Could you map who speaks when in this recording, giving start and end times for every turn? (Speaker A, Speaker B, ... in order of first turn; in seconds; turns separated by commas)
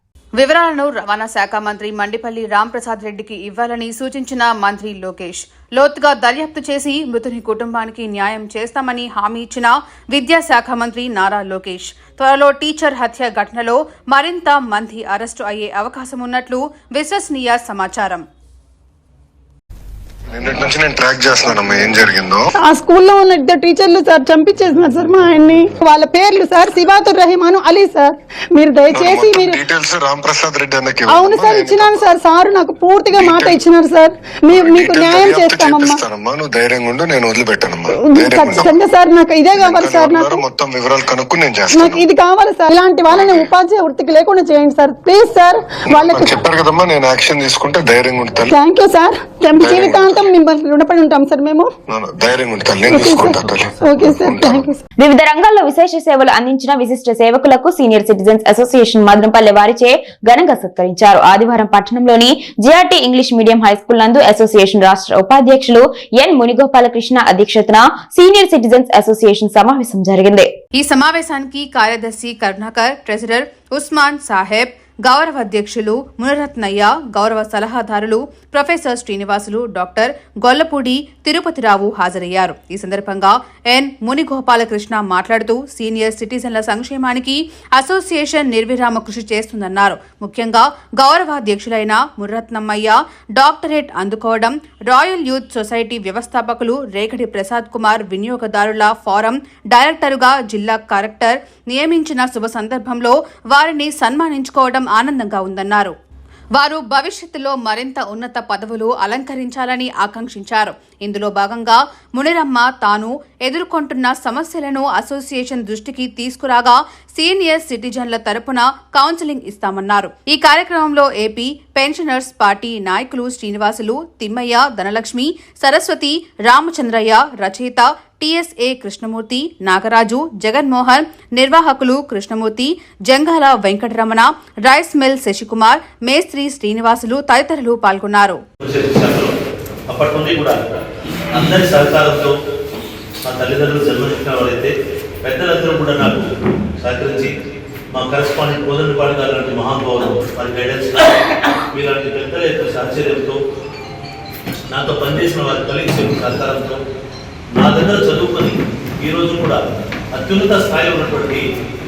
Speaker A: 0.4-18.2, Speaker B: 20.3-22.4, Speaker C: 22.6-29.6, Speaker B: 28.9-32.1, Speaker C: 31.1-36.0, Speaker B: 33.2-33.6, Speaker B: 34.5-38.7, Speaker C: 38.2-40.4, Speaker B: 39.6-42.0, Speaker C: 41.7-46.4, Speaker B: 43.1-43.5, Speaker B: 45.9-48.5, Speaker C: 48.5-51.7, Speaker B: 49.6-50.3, Speaker B: 51.9-54.7, Speaker C: 52.9-54.8, Speaker D: 55.0-70.5, Speaker A: 70.8-105.9, Speaker A: 106.6-138.4, Speaker E: 138.6-139.3, Speaker E: 139.9-140.6, Speaker E: 141.3-142.3, Speaker E: 143.3-144.7, Speaker E: 145.2-146.3, Speaker E: 146.8-147.3, Speaker E: 147.9-153.4, Speaker E: 154.7-156.8, Speaker E: 157.5-159.6, Speaker E: 160.1-161.4